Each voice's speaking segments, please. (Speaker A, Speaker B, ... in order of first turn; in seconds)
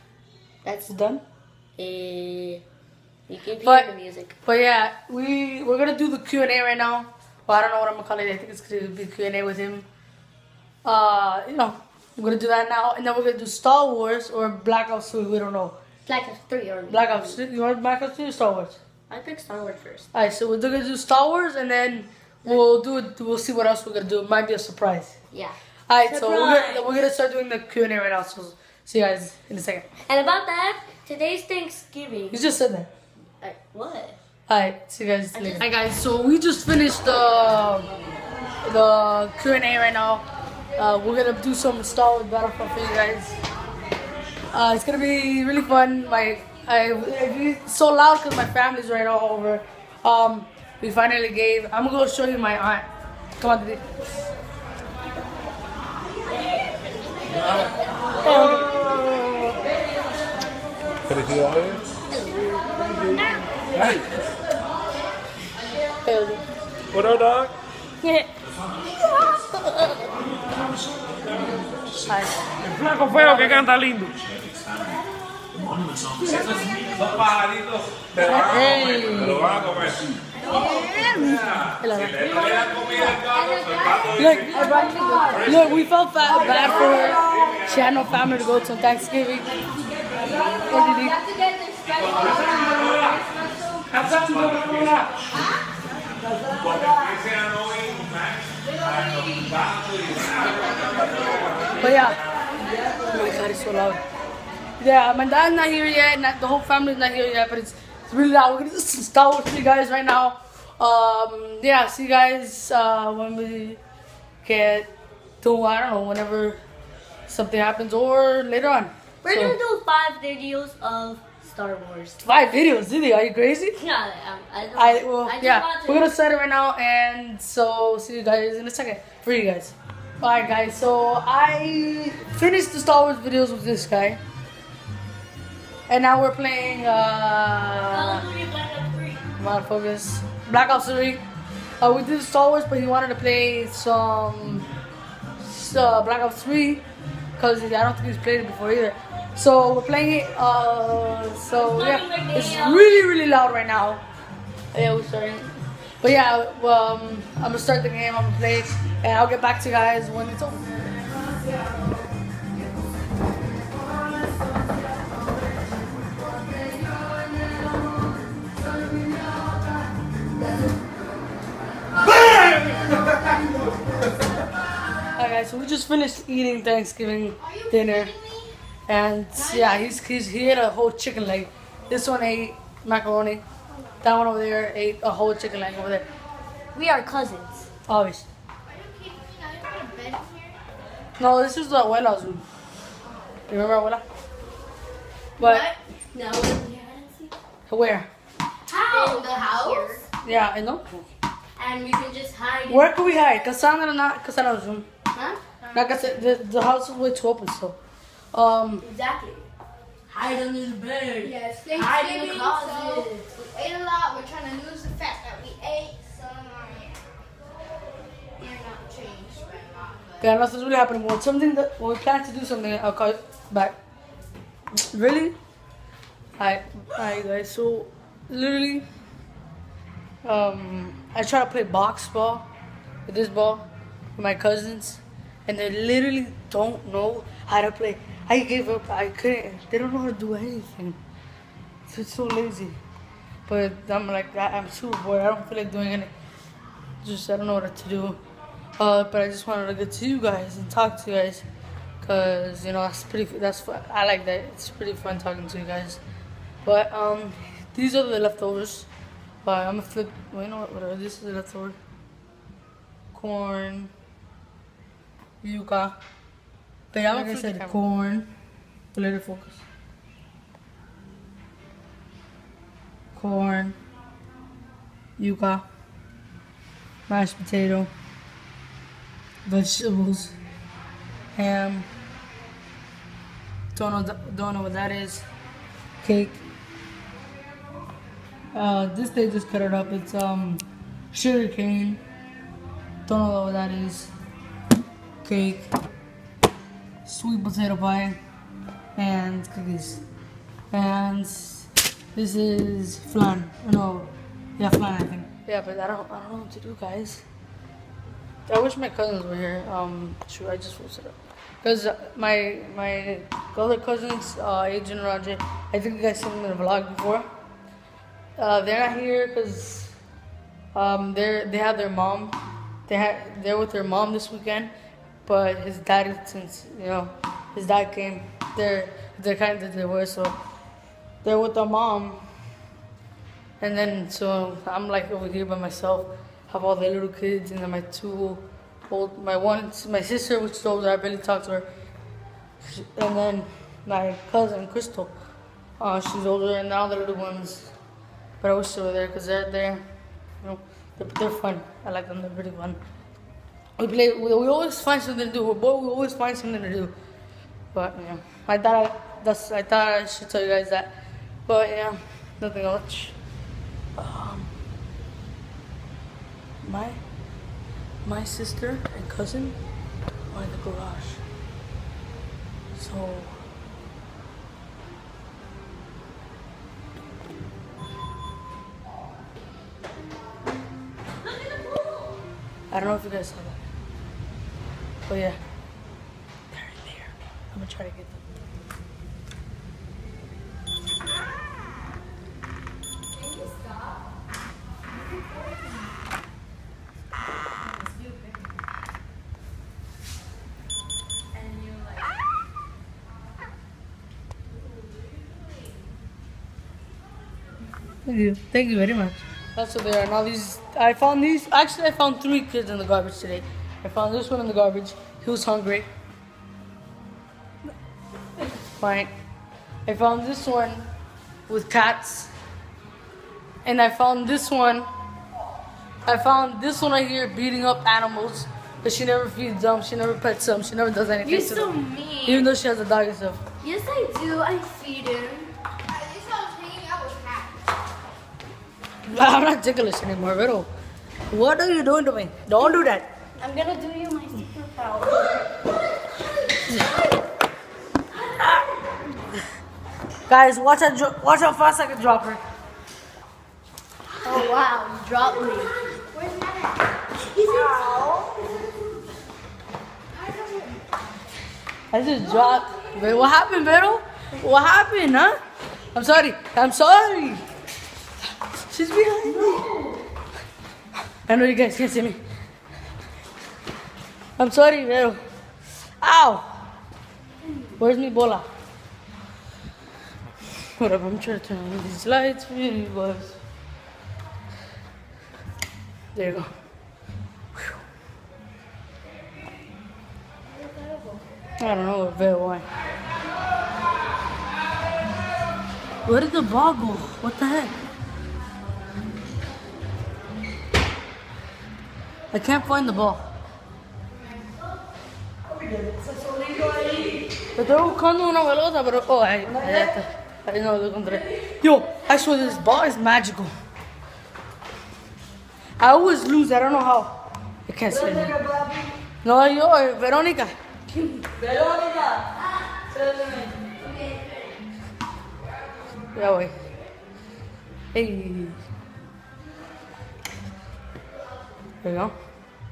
Speaker A: 0.6-1.0, 1.8-2.6, 3.3-4.3, 16.1-17.4, 19.1-20.1, 25.3-27.1, 30.1-32.4, 33.4-34.2, 35.3-35.7, 58.2-59.4, 61.6-63.5, 68.0-68.3, 75.5-77.4, 80.4-81.5, 82.2-85.7, 86.5-87.5, 90.0-93.9, 96.3-97.3, 100.4-101.5, 119.2-122.2, 123.7-126.1, 137.9-139.2, 151.5-153.0, 186.7-187.7, 195.4-197.3, 198.7-200.1, 201.6-202.9, 205.1-206.0, 208.8-209.5, 210.1-213.4, 267.0-267.8, 381.2-382.2, 401.4-402.0, 431.2-432.5, 433.6-435.5, 443.4-445.6, 454.2-455.7, 457.3-458.4, 469.3-469.9, 505.5-507.3, 509.5-510.0, 517.9-518.9, 520.9-522.4, 522.9-524.4
Speaker B: 0.9-1.2, 3.6-3.9, 4.5-9.9, 10.8-15.8, 16.9-18.8, 20.1-25.2, 25.9-29.9, 32.3-32.9, 34.5-37.9, 38.6-40.3, 40.8-43.4, 44.5-52.9, 53.4-53.8, 58.2-58.8, 66.0-66.4, 72.1-72.4, 78.2-79.7, 81.3-82.4, 84.2-89.6, 90.6-91.2, 93.9-95.2, 101.8-102.2, 103.0-104.0, 104.8-113.8, 114.4-114.9, 115.4-116.6, 117.3-119.5, 122.2-123.8, 124.8-134.2, 135.9-138.3, 139.4-141.2, 141.8-144.7, 145.4-146.8, 147.4-154.0, 154.7-160.8, 175.2-178.2, 178.9-183.4, 184.0-186.1, 187.9-188.3, 191.2-192.4, 193.5-194.0, 195.4-195.7, 197.7-198.1, 200.2-201.1, 202.7-204.9, 205.7-207.8, 208.3-208.8, 220.2-223.8, 224.7-225.4, 226.4-228.9, 230.2-232.5, 233.1-241.0, 241.9-242.8, 243.5-246.1, 247.0-248.2, 248.8-251.5, 252.0-256.0, 256.6-258.9, 259.4-261.8, 263.1-263.9, 265.4-266.0, 266.9-268.3, 268.9-269.6, 273.1-273.8, 275.2-275.6, 277.1-277.9, 279.4-280.4, 281.4-281.9, 283.7-285.3, 286.0-286.4, 288.5-292.0, 293.1-294.1, 295.2-295.7, 297.1-298.2, 299.0-300.0, 300.7-307.2, 308.5-317.3, 318.4-319.9, 320.7-324.7, 325.3-330.4, 331.2-332.2, 333.6-341.7, 342.6-345.2, 345.8-347.7, 348.4-349.9, 350.4-352.8, 353.8-356.9, 357.7-360.9, 361.5-363.2, 364.0-364.5, 366.6-367.0, 368.1-369.6, 370.3-371.2, 372.7-373.3, 382.7-383.6, 385.1-385.4, 386.5-388.2, 408.1-415.9, 418.4-419.1, 419.9-420.9, 421.5-422.3, 423.6-424.9, 426.1-431.7, 432.2-433.4, 439.1-440.7, 441.3-443.1, 450.3-452.4, 461.9-465.4, 465.9-467.4, 468.7-469.6, 471.3-472.2, 474.4-475.2, 476.0-476.6, 477.8-478.4, 480.8-483.4, 486.1-486.5, 491.6-492.7, 496.1-497.7, 502.3-503.2, 507.6-513.5, 515.8-517.1, 517.7-518.4, 519.2-520.5, 526.1-526.5, 527.9-528.6, 531.8-532.1
Speaker C: 72.8-74.6, 75.8-76.6
Speaker D: 177.5-178.5, 188.7-190.6, 198.7-200.0, 211.2-217.0, 218.4-220.2, 435.9-437.5